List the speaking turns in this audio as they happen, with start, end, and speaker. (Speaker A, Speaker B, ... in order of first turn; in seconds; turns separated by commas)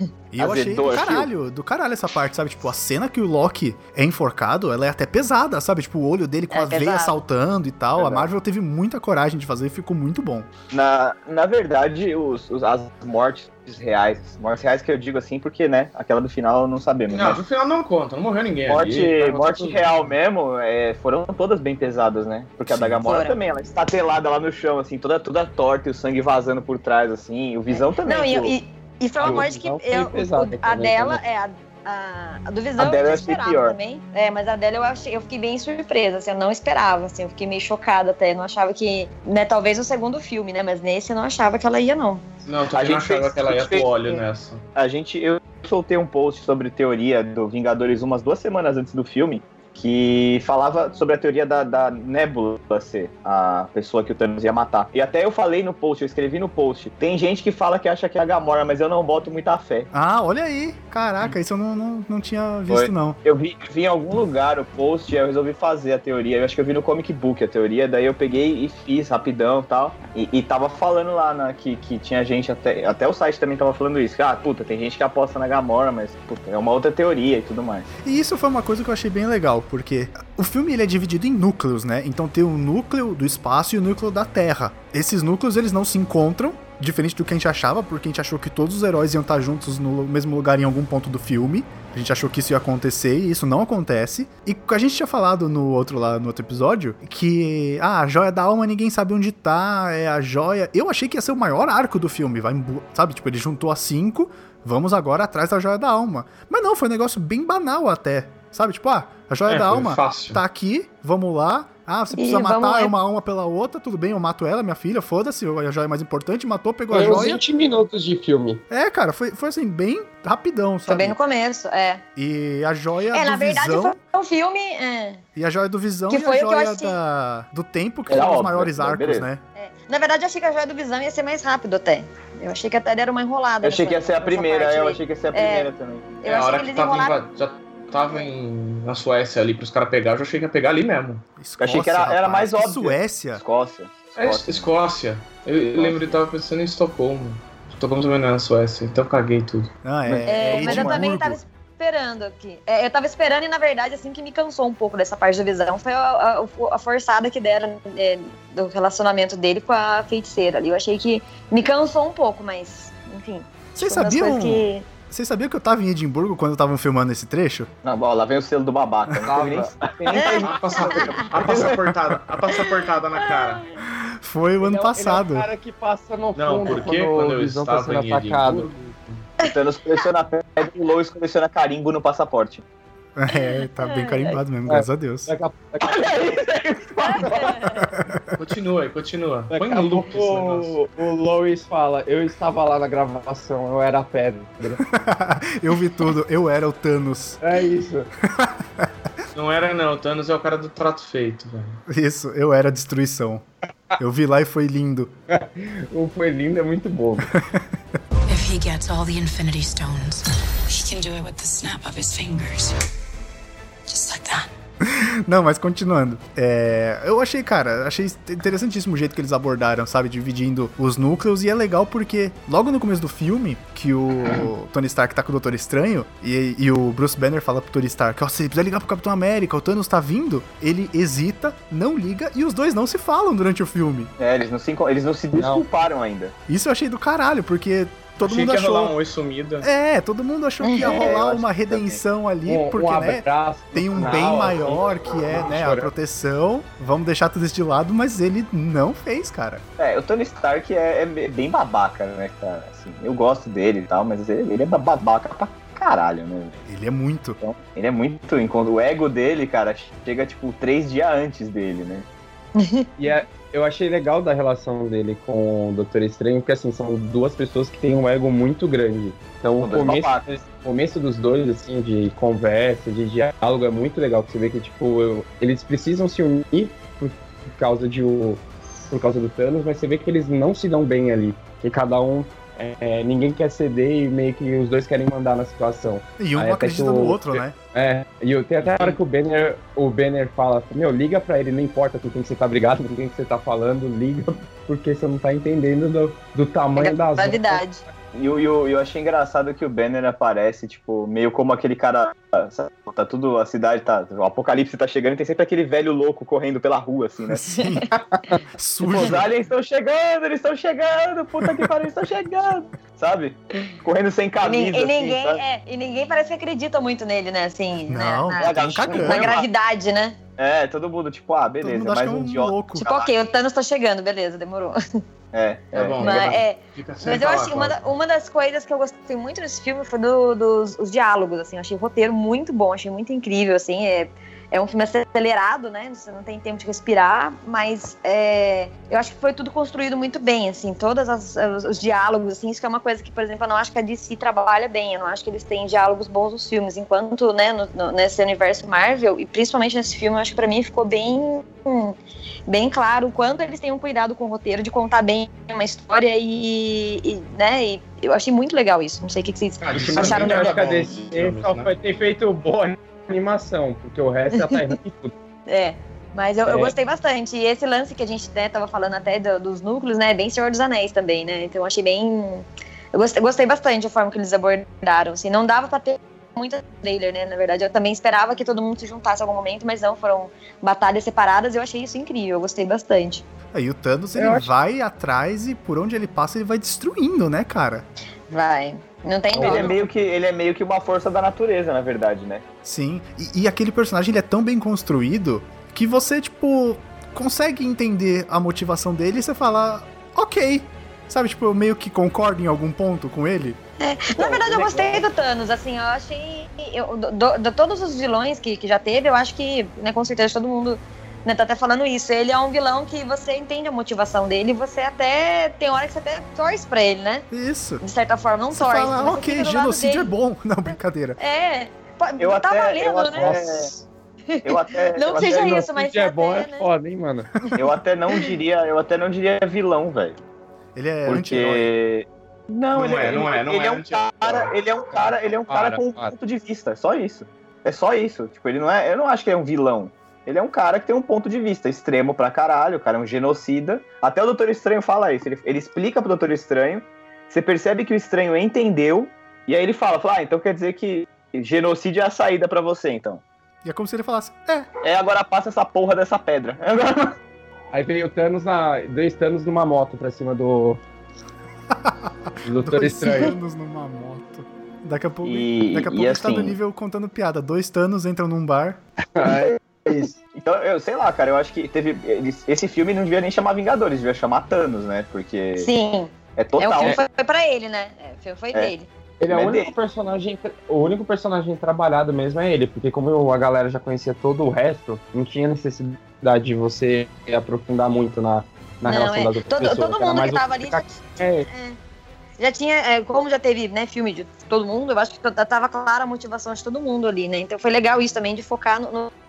Speaker A: 0.3-10.5, Speaker B: 0.4-1.3, Speaker C: 6.5-7.2, Speaker B: 8.0-8.3, Speaker B: 10.7-17.4, Speaker D: 17.1-20.1, Speaker B: 18.7-28.6, Speaker C: 23.0-23.4, Speaker C: 28.0-42.2, Speaker E: 29.2-31.2, Speaker B: 32.8-33.8, Speaker D: 42.5-44.6, Speaker B: 42.7-43.9, Speaker B: 44.8-59.9, Speaker A: 59.9-63.2, Speaker B: 62.7-77.9, Speaker A: 78.0-117.4, Speaker D: 109.5-110.4, Speaker C: 112.2-113.0, Speaker E: 116.9-118.6, Speaker A: 118.7-121.2, Speaker C: 120.9-122.0, Speaker A: 122.2-124.0, Speaker C: 123.1-125.2, Speaker A: 125.4-129.4, Speaker C: 126.1-127.0, Speaker B: 128.1-129.3, Speaker C: 129.6-135.7, Speaker B: 133.6-136.1, Speaker C: 136.2-137.2, Speaker D: 136.2-141.2, Speaker A: 141.4-143.4, Speaker B: 141.6-144.7, Speaker D: 144.2-149.7, Speaker B: 145.8-146.2, Speaker A: 149.8-151.4, Speaker E: 150.1-150.9, Speaker C: 150.3-164.8, Speaker A: 163.8-167.7, Speaker B: 167.8-171.8, Speaker E: 169.2-169.7, Speaker C: 170.1-171.0, Speaker D: 170.2-173.7, Speaker A: 171.9-172.2, Speaker C: 173.2-173.6, Speaker A: 173.9-175.5, Speaker E: 174.6-178.9, Speaker D: 176.3-179.3, Speaker B: 179.4-182.6, Speaker A: 183.2-185.3, Speaker C: 183.3-184.4, Speaker E: 184.7-186.0, Speaker B: 185.8-187.6, Speaker C: 187.0-187.9, Speaker A: 187.8-188.4, Speaker D: 188.3-190.8, Speaker E: 189.5-194.8, Speaker A: 194.8-197.4, Speaker E: 197.4-198.1, Speaker A: 198.2-198.9, Speaker D: 199.3-201.8, Speaker A: 201.9-203.5, Speaker A: 204.0-205.1, Speaker E: 205.3-207.3, Speaker A: 207.3-207.7, Speaker F: 208.3-212.8, Speaker F: 213.9-214.5, Speaker A: 214.8-234.1, Speaker B: 234.2-236.3, Speaker E: 235.3-235.7, Speaker A: 236.5-238.9, Speaker D: 238.2-239.7, Speaker A: 239.6-249.6, Speaker C: 240.6-241.0, Speaker B: 240.8-242.0, Speaker E: 242.5-245.9, Speaker B: 249.8-256.6, Speaker A: 256.7-257.4, Speaker B: 257.4-262.1, Speaker C: 262.6-263.2, Speaker E: 263.0-297.6, Speaker B: 269.6-270.3, Speaker A: 286.2-287.6, Speaker D: 288.6-289.0, Speaker C: 296.8-297.8, Speaker B: 298.1-307.5, Speaker A: 307.3-309.3, Speaker B: 308.9-315.4, Speaker A: 311.4-311.7, Speaker C: 314.4-320.2, Speaker A: 317.9-319.3, Speaker B: 318.4-319.5, Speaker B: 320.4-323.1, Speaker A: 321.6-322.9, Speaker C: 322.8-324.8, Speaker B: 325.3-326.4, Speaker D: 325.7-327.9, Speaker C: 326.0-352.0, Speaker C: 352.5-360.5, Speaker D: 359.6-361.7, Speaker E: 359.7-365.1, Speaker C: 365.5-383.2, Speaker E: 366.5-366.7, Speaker A: 383.5-387.9, Speaker E: 384.2-384.5, Speaker C: 388.3-389.8, Speaker E: 389.3-389.8, Speaker B: 389.4-392.4, Speaker A: 392.6-403.6, Speaker C: 403.8-417.3, Speaker E: 404.2-405.0, Speaker A: 417.3-417.8, Speaker C: 417.8-420.1, Speaker A: 418.5-421.2, Speaker C: 421.2-423.6, Speaker B: 422.2-423.7, Speaker E: 423.1-423.8, Speaker C: 424.3-426.7, Speaker B: 424.4-425.6, Speaker E: 425.1-427.4, Speaker B: 427.6-430.2, Speaker A: 430.8-431.7, Speaker B: 431.1-453.2, Speaker D: 432.7-434.5, Speaker E: 435.0-436.1, Speaker A: 453.6-454.7, Speaker B: 454.8-457.2, Speaker E: 457.7-460.8, Speaker A: 461.7-468.8, Speaker E: 462.4-463.4, Speaker B: 465.2-466.6, Speaker E: 469.1-470.2, Speaker B: 469.2-469.6, Speaker B: 470.3-475.7, Speaker C: 475.6-478.9, Speaker B: 476.4-477.0, Speaker E: 479.2-491.5, Speaker B: 479.3-479.7, Speaker C: 488.9-491.8, Speaker C: 492.4-499.1